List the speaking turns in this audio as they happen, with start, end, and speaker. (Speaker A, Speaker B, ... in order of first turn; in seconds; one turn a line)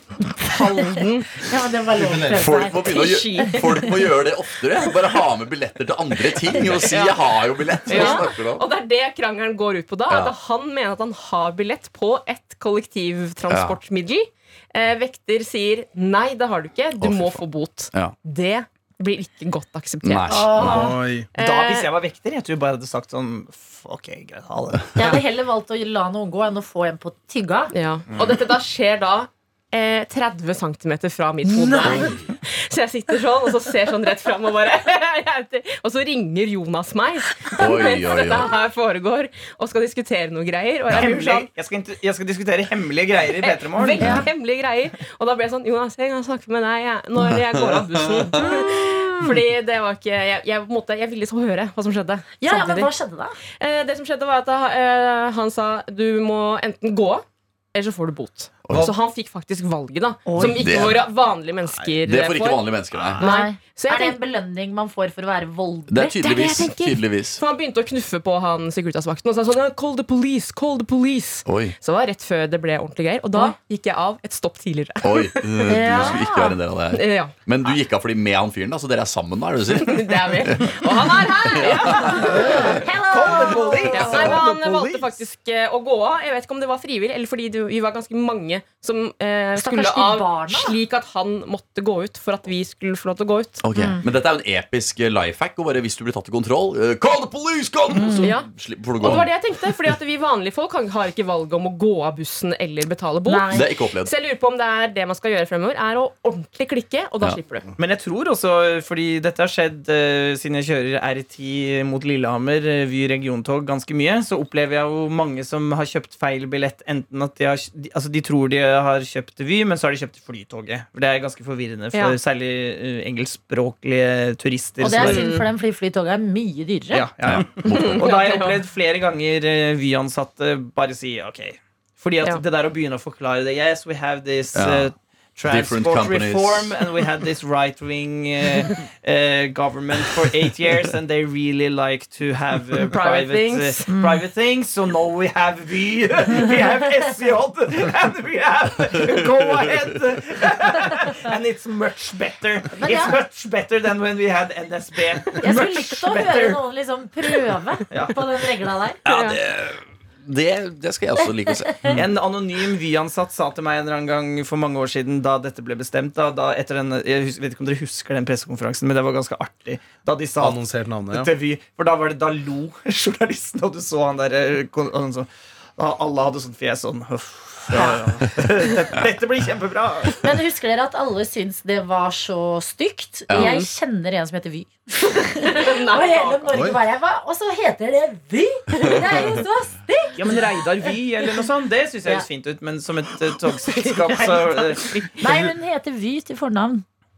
Speaker A: 0.5-1.3
Speaker B: 1.4-4.1
Speaker C: 1.9-2.5
Speaker D: 2.3-8.7
Speaker A: 2.8-3.6
Speaker A: 6.6-7.2
Speaker A: 7.8-20.4
Speaker D: 10.1-10.3
Speaker D: 13.5-13.8
Speaker D: 17.0-18.1
Speaker D: 20.0-20.9
Speaker B: 20.3-21.0
Speaker C: 20.6-21.3
Speaker A: 21.3-21.9
Speaker E: 21.4-24.9
Speaker B: 24.9-27.7
Speaker A: 27.7-41.5
Speaker B: 31.4-32.2
Speaker D: 31.8-32.2
Speaker D: 37.5-38.5
Speaker E: 41.0-44.0
Speaker A: 43.4-52.9
Speaker B: 44.0-44.2
Speaker B: 48.4-49.2
Speaker B: 52.4-53.4
Speaker A: 53.6-64.2
Speaker D: 58.6-58.9
Speaker B: 60.3-61.0
Speaker D: 60.4-61.0
Speaker D: 62.0-63.3
Speaker B: 63.2-66.2
Speaker D: 65.9-67.4
Speaker A: 66.2-76.1
Speaker D: 71.5-71.7
Speaker D: 75.0-80.8
Speaker B: 75.7-76.6
Speaker A: 76.9-77.3
Speaker A: 79.8-82.7
Speaker D: 81.5-82.2
Speaker B: 81.9-84.4
Speaker E: 82.4-85.1
Speaker A: 83.8-93.6
Speaker B: 89.6-90.8
Speaker D: 93.6-99.3
Speaker B: 93.7-94.0
Speaker B: 97.9-98.3
Speaker A: 98.2-107.7
Speaker B: 103.2-103.7
Speaker D: 103.5-104.1
Speaker E: 107.8-125.3
Speaker B: 124.8-127.1
Speaker A: 125.0-125.5
Speaker E: 126.9-156.6
Speaker D: 127.2-128.1
Speaker A: 127.6-128.6
Speaker D: 134.5-134.9
Speaker D: 135.4-136.8
Speaker A: 142.8-143.9
Speaker B: 143.9-144.2
Speaker B: 152.8-153.2
Speaker B: 155.4-159.0
Speaker E: 157.9-158.2
Speaker D: 159.0-162.0
Speaker A: 159.1-159.4
Speaker E: 161.9-180.2
Speaker C: 170.4-171.3
Speaker B: 177.7-178.0
Speaker B: 180.2-190.6
Speaker D: 183.3-183.6
Speaker A: 183.3-183.7
Speaker A: 185.4-186.6
Speaker C: 186.5-186.8
Speaker E: 190.2-195.1
Speaker B: 193.7-196.8